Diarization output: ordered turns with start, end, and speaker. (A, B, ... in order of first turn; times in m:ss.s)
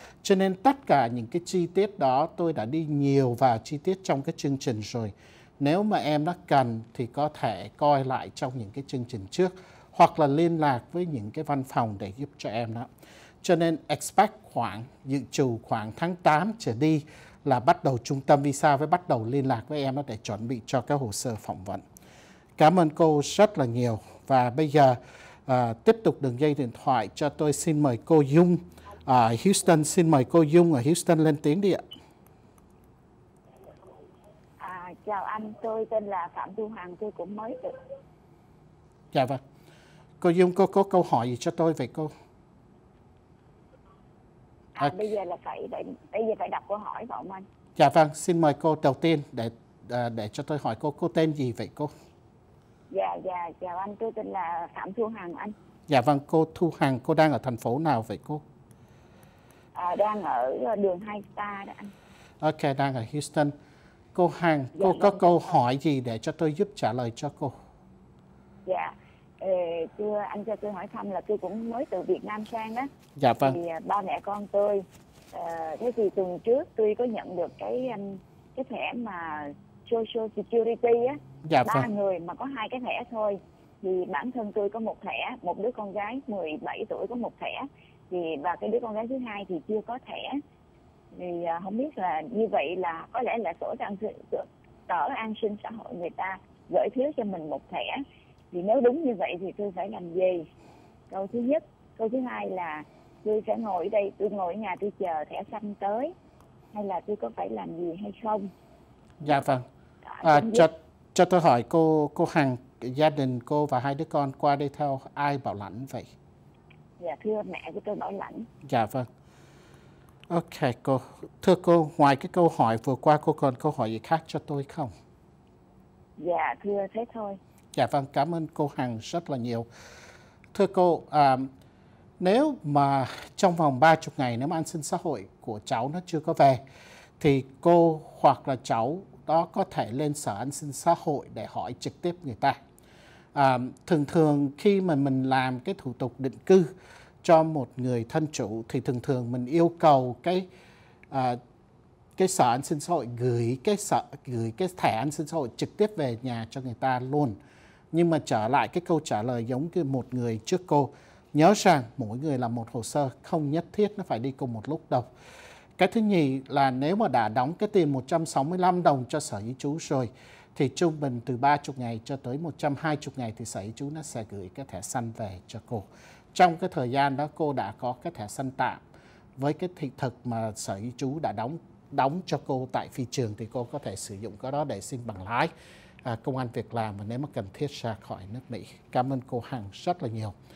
0:00.2-0:12.9 A
0:13.4-0:21.8 A
0:22.6-0:31.8 A
0:34.6-0:37.7 B
0:39.1-0:39.4 A
0:40.2-0:42.1 A
0:44.7-0:47.4 B
0:47.8-0:51.9 A
0:52.9-0:55.5 B
0:55.9-0:58.4 A
0:59.7-1:01.9 B
1:02.4-1:03.5 A
1:04.1-1:07.6 A
1:04.8-1:05.2 B
1:08.6-1:12.9 B
1:13.2-1:13.6 A
1:13.4-1:30.4 B
1:21.5-1:21.9 A
1:31.1-1:40.5 B
1:41.1-1:46.1 B
1:46.7-1:48.5 B
1:49.2-1:49.6 A
1:50.1-1:50.7 B
1:50.2-1:56.1 A
1:57.0-1:58.5 B
1:58.6-1:59.1 A
2:00.3-2:04.9 A
2:06.2-2:07.4 B
2:07.7-2:09.7 A
2:10.5-2:11.5 A
2:12.2-2:16.6 A
2:17.2-2:22.6 A
2:23.3-2:26.7 A
2:27.2-2:30.4 A
2:31.1-2:31.4 A
2:32.2-2:37.4 A
2:37.9-2:45.1 A
2:45.8-2:58.8 A
2:59.4-3:05.5 A
3:06.0-3:10.3 A